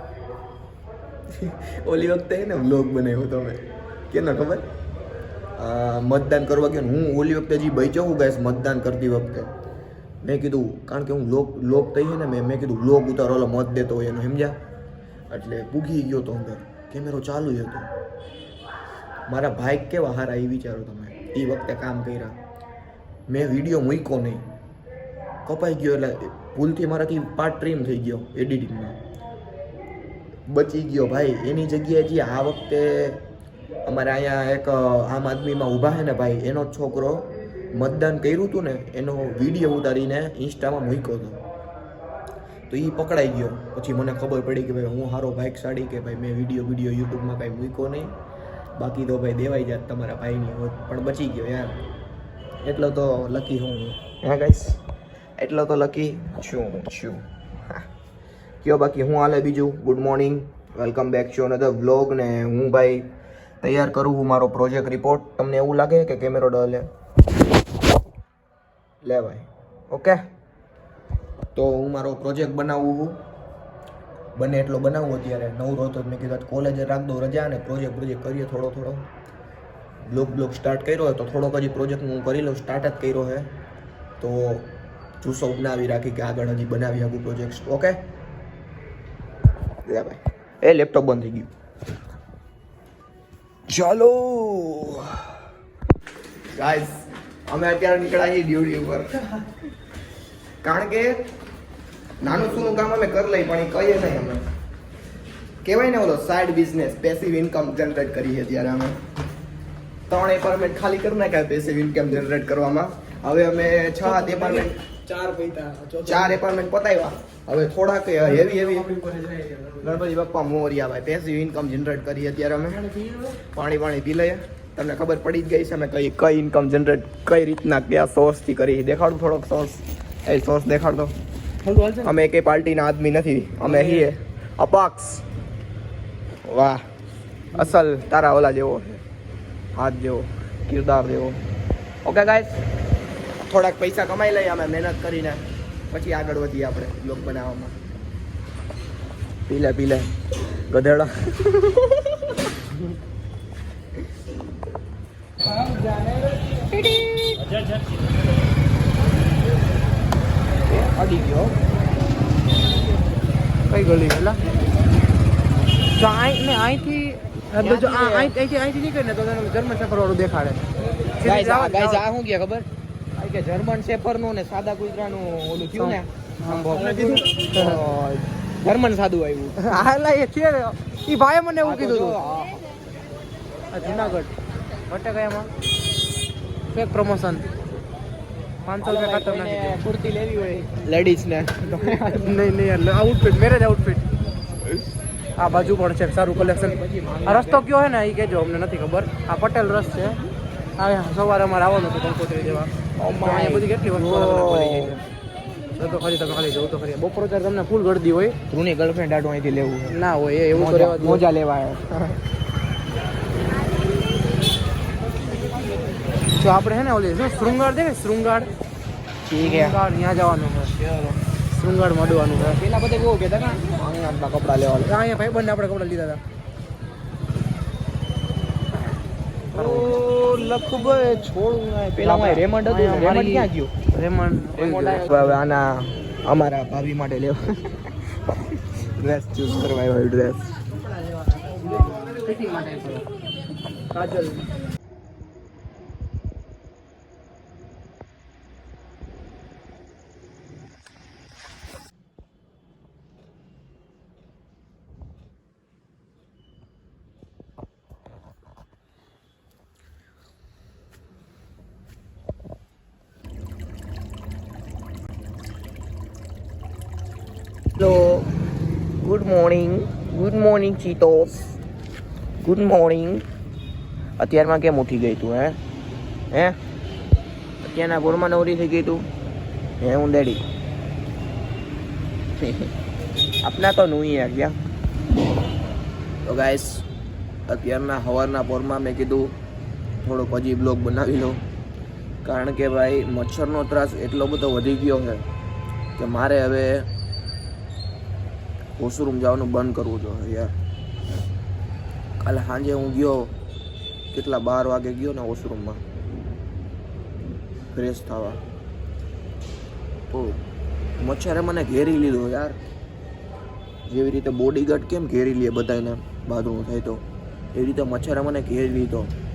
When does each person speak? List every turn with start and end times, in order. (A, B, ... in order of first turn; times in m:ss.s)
0:01.3-0:04.7 A
0:05.6-0:09.5 A
0:10.2-0:14.6 A
0:15.3-0:17.9 A
0:19.3-0:22.4 A
0:23.3-0:24.4 A
0:25.4-0:29.0 A
0:30.5-0:33.2 A
0:33.8-0:41.4 A
0:42.7-0:48.1 A
0:48.7-0:51.8 A
0:52.6-0:54.8 A
0:55.4-0:57.8 A
0:58.6-1:03.1 A
1:03.6-1:06.9 A
1:09.0-1:10.2 A
1:11.5-1:13.2 A
1:14.3-1:19.1 A
1:20.0-1:23.5 A
1:24.2-1:28.0 A
1:29.8-1:31.5 A
1:33.7-1:35.3 A
1:36.5-1:39.5 A
1:40.6-1:41.2 A
1:42.2-1:44.4 A
1:45.6-1:49.0 A
1:50.1-1:54.8 A
1:54.0-1:56.4 B
1:56.0-1:58.9 A
1:58.3-1:59.9 B
1:59.8-2:02.8 A
2:02.8-2:03.3 B
2:03.4-2:11.2 A
2:11.6-2:12.1 B
2:12.0-2:15.2 A
2:13.6-2:14.1 B
2:16.4-2:16.8 A
2:17.5-2:19.0 A
2:19.7-2:21.4 A
2:22.0-2:22.6 A
2:23.5-2:27.8 A
2:29.5-2:30.1 A
2:30.7-2:32.4 A
2:36.9-2:37.2 A
2:40.6-2:41.6 A
2:43.7-2:44.4 B
2:45.9-2:52.0 B
2:47.6-2:48.3 A
2:51.2-2:59.8 A
2:55.7-2:57.8 B
2:59.6-3:02.2 B
3:01.6-3:02.6 A
3:03.7-3:04.3 B
3:03.8-3:04.1 A
3:04.8-3:05.5 B
3:06.7-3:07.4 B
3:08.6-3:09.8 B
3:08.8-3:12.4 A
3:11.8-3:14.0 B
3:15.4-3:20.2 B
3:15.4-3:15.7 A
3:16.3-3:17.7 A
3:20.8-3:25.0 B
3:23.0-3:25.0 A
3:25.7-3:28.4 B
3:28.5-3:30.0 A
3:29.9-3:31.2 B
3:30.5-3:32.2 A
3:36.3-3:38.5 B
3:39.2-3:39.8 A
3:39.4-3:40.8 B
3:40.8-3:41.2 A
3:41.5-3:42.6 B
3:42.4-3:45.0 A
3:44.8-3:46.2 B
3:49.5-3:53.7 A
3:49.6-3:49.9 B
3:52.0-3:55.4 B
3:54.5-4:00.5 A
4:01.2-4:03.1 B
4:03.9-4:04.4 B
4:27.8-4:28.3 A
4:29.0-4:31.6 A
4:32.4-4:33.2 A
4:34.2-4:35.6 A
4:36.3-4:36.6 A
4:37.6-4:39.1 A
4:39.8-4:40.4 A
4:42.4-4:42.7 A
4:43.4-4:44.6 A
4:46.2-4:46.9 A
4:47.5-4:49.4 A
4:50.0-4:51.4 A
4:52.2-4:55.2 A
4:56.0-4:56.9 A
4:58.8-5:00.5 A
5:02.2-5:03.4 A
5:04.1-5:05.8 A
5:07.7-5:08.4 A
5:10.1-5:10.4 A
5:11.0-5:12.6 A
5:13.9-5:19.1 A